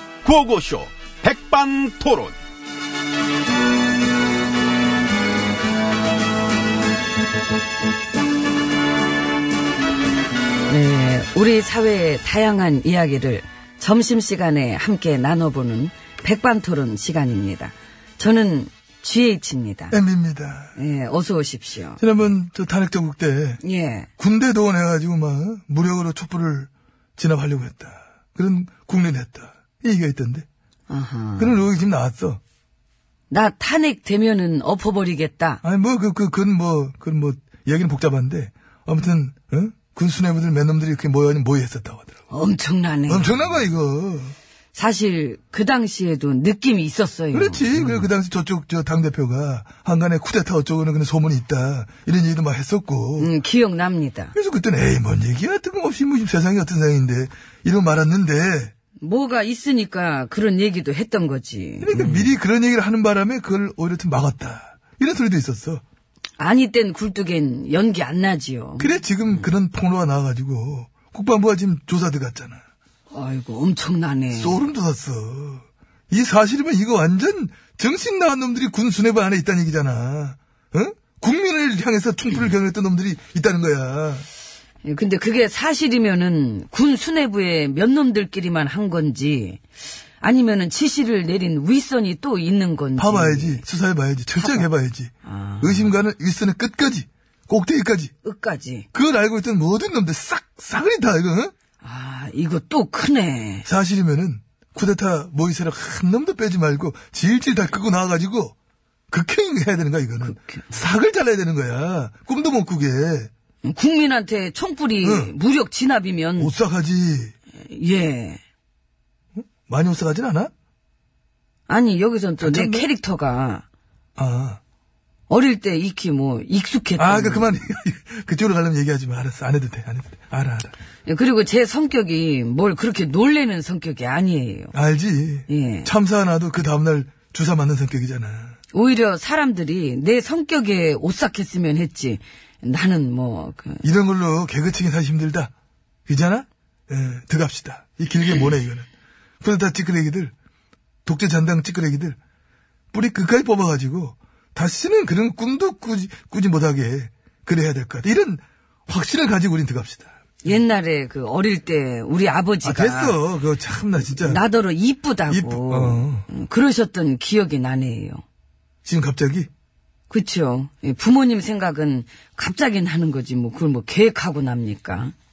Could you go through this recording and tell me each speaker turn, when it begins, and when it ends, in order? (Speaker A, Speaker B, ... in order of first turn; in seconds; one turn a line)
Speaker A: 0.2-2.4
Speaker B: 10.7-19.9
Speaker C: 19.9-20.7
Speaker B: 20.7-22.0
Speaker C: 22.0-23.6
Speaker B: 23.6-24.1
Speaker C: 24.2-30.4
Speaker B: 30.9-31.6
Speaker C: 31.4-32.4
Speaker B: 33.3-35.6
Speaker C: 35.6-42.1
Speaker B: 42.3-43.5
Speaker C: 43.1-44.3
Speaker B: 44.7-48.1
Speaker C: 47.3-53.3
Speaker B: 53.2-54.3
Speaker C: 54.3-58.7
Speaker B: 59.0-62.3
Speaker C: 61.8-65.8
Speaker B: 66.4-69.4
Speaker C: 68.8-72.6
Speaker B: 73.1-74.6
Speaker C: 74.3-84.3
Speaker B: 84.8-89.6
Speaker B: 90.2-93.6
Speaker C: 93.0-98.1
Speaker B: 94.4-94.7
Speaker B: 95.2-95.9
Speaker B: 98.2-98.9
Speaker C: 98.9-101.5
Speaker B: 101.8-103.7
Speaker C: 103.6-108.5
Speaker C: 109.1-113.3
Speaker B: 110.2-110.7
Speaker B: 113.6-116.5
Speaker C: 115.0-115.3
Speaker C: 116.4-117.3
Speaker B: 117.5-118.4
Speaker C: 119.3-120.5
Speaker B: 121.7-123.6
Speaker C: 122.4-122.8
Speaker C: 124.2-124.6
Speaker B: 125.3-127.5
Speaker C: 127.0-130.7
Speaker B: 131.1-134.7
Speaker C: 134.7-138.5
Speaker B: 135.5-135.9
Speaker B: 138.7-143.8
Speaker C: 143.8-145.5
Speaker C: 146.1-148.9
Speaker C: 149.4-150.3
Speaker C: 151.1-152.2
Speaker C: 152.9-160.1
Speaker B: 160.4-163.2
Speaker C: 162.6-164.4
Speaker B: 164.1-168.2
Speaker C: 165.3-166.2
Speaker C: 168.8-169.5
Speaker B: 170.1-175.1